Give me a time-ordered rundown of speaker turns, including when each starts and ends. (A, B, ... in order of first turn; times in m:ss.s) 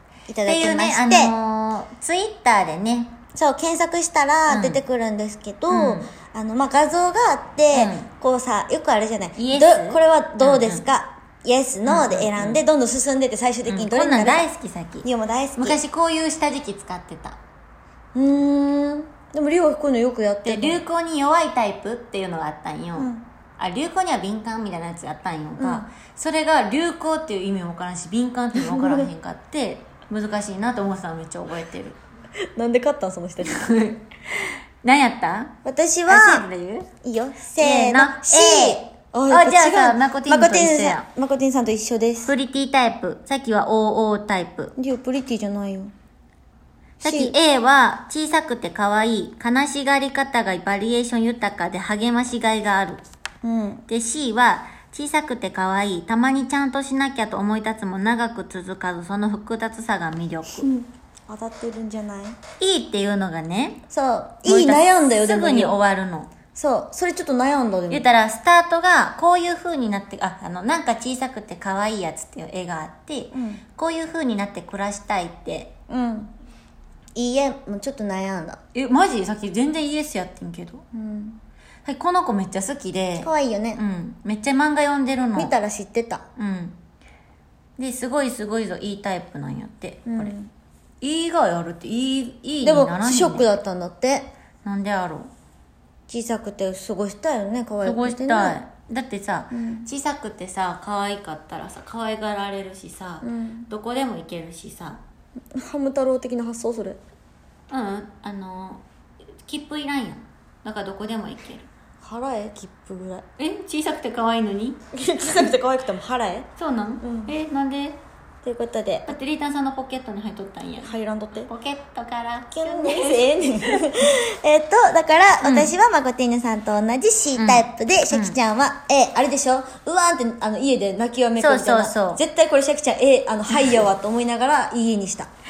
0:00.3-0:01.3 A
0:00.4-0:03.2 B
0:03.3-0:14.5 A
0:04.5-0:04.8 B
0:05.7-0:06.1 B
0:07.7-0:08.1 B
0:09.4-0:10.8 B
0:11.8-0:12.6 B
0:13.7-0:17.4 B
0:15.0-0:15.8 A
0:18.1-0:20.8 A
0:20.4-0:32.0 B
0:23.0-0:23.2 A
0:25.6-0:25.9 A
0:28.6-0:29.1 A
0:32.6-0:33.6 A
0:33.4-0:34.0 B
0:34.8-0:35.5 B
0:35.6-0:36.4 A
0:36.1-0:36.9 B
0:37.0-0:42.3 A
0:37.6-0:41.0 B
0:42.2-0:44.7 B
0:44.8-0:45.9 A
0:47.0-0:53.0 B
0:47.0-0:47.3 A
0:53.4-0:53.8 A
0:53.9-1:00.7 B
1:00.5-1:02.4 A
1:02.6-1:03.8 B
1:03.9-1:05.8 A
1:04.4-1:06.3 B
1:06.5-1:08.0 A
1:07.9-1:15.7 B
1:13.3-1:13.6 A
1:15.9-1:16.3 A
1:17.1-1:18.6 A
1:18.7-1:20.8 B
1:20.9-1:21.4 A
1:21.8-1:25.5 B
1:23.2-1:23.8 A
1:25.4-1:26.2 A
1:26.4-1:26.8 B
1:27.8-1:30.3 B
1:30.1-1:30.5 A
1:31.0-1:33.5 B
1:32.6-1:34.3 A
1:34.6-1:35.3 B
1:36.1-1:38.6 A
1:37.8-1:45.0 B
1:39.5-1:39.9 A
1:43.2-1:43.7 A
1:45.6-1:47.0 A
1:47.7-1:48.8 B
1:49.4-1:51.7 B
1:52.0-1:53.2 A
1:53.4-1:54.8 B
1:54.9-1:56.5 A
1:56.6-1:58.0 B
1:57.0-1:57.3 A
1:58.4-1:59.1 A
1:59.1-2:03.8 B
2:00.8-2:01.5 A
2:02.5-2:15.3 A
2:05.4-2:05.7 B
2:07.3-2:08.4 B
2:11.4-2:12.2 B
2:13.5-2:13.8 B